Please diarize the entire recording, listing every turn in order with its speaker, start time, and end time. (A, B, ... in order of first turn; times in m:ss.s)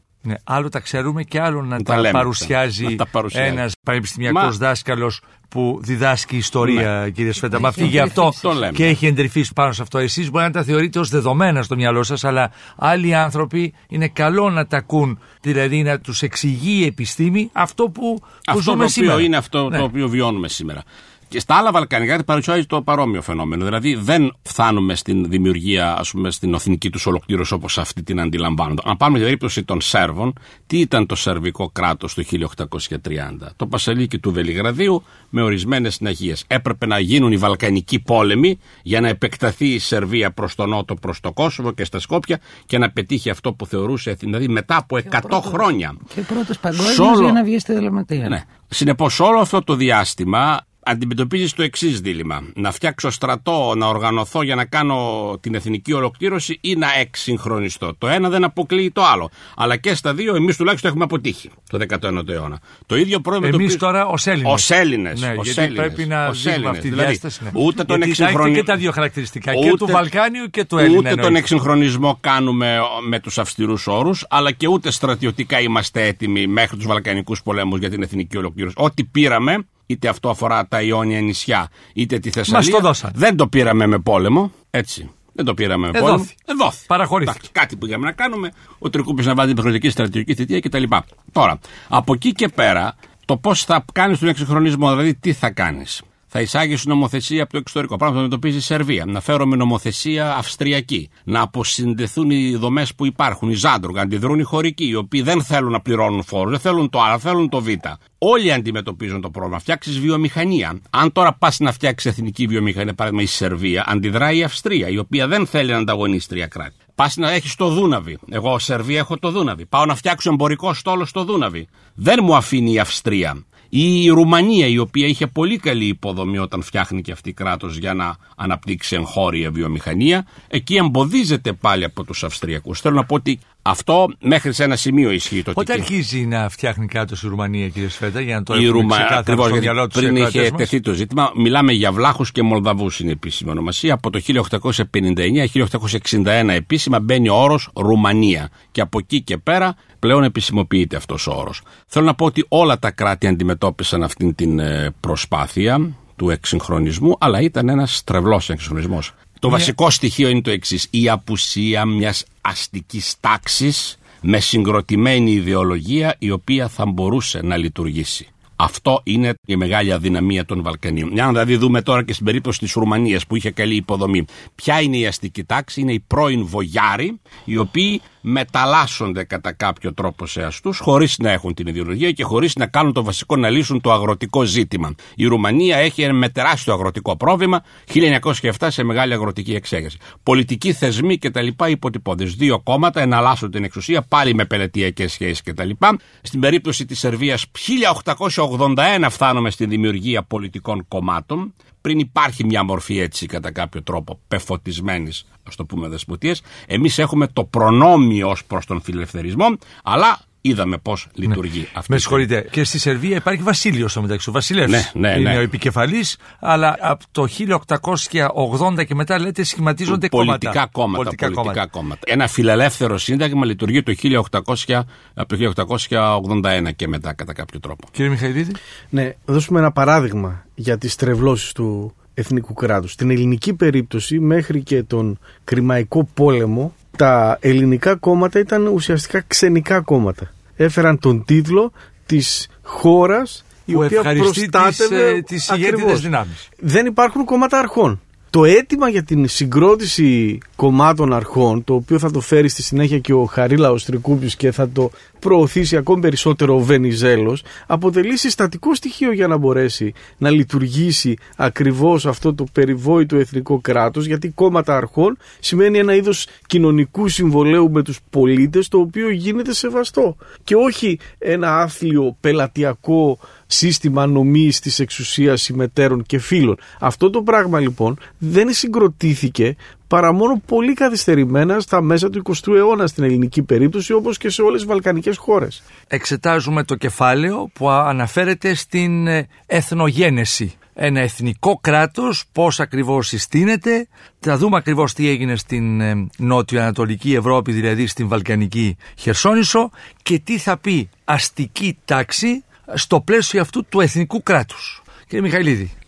0:00.2-0:19.8 A
0:01.8-0:03.6 B
0:04.3-0:04.6 B
0:06.6-0:06.9 B
0:07.5-0:08.4 C
0:07.6-0:09.0 B
0:18.5-0:46.0 B
0:45.0-0:48.4 C
0:46.7-0:47.4 B
0:48.2-1:03.9 B
1:03.4-1:11.4 A
1:04.4-1:08.8 B
1:09.5-1:10.1 B
1:10.8-2:15.9 B
1:22.5-1:23.2 A
1:25.9-1:26.3 A
1:26.9-1:27.4 A
2:15.6-2:20.7 A
2:18.5-3:32.3 B
3:31.3-3:41.6 A
3:34.7-3:35.5 B
3:39.9-3:47.9 B
3:48.0-3:48.6 A
3:48.9-4:45.6 D
4:03.7-4:06.5 A
4:45.9-5:05.7 A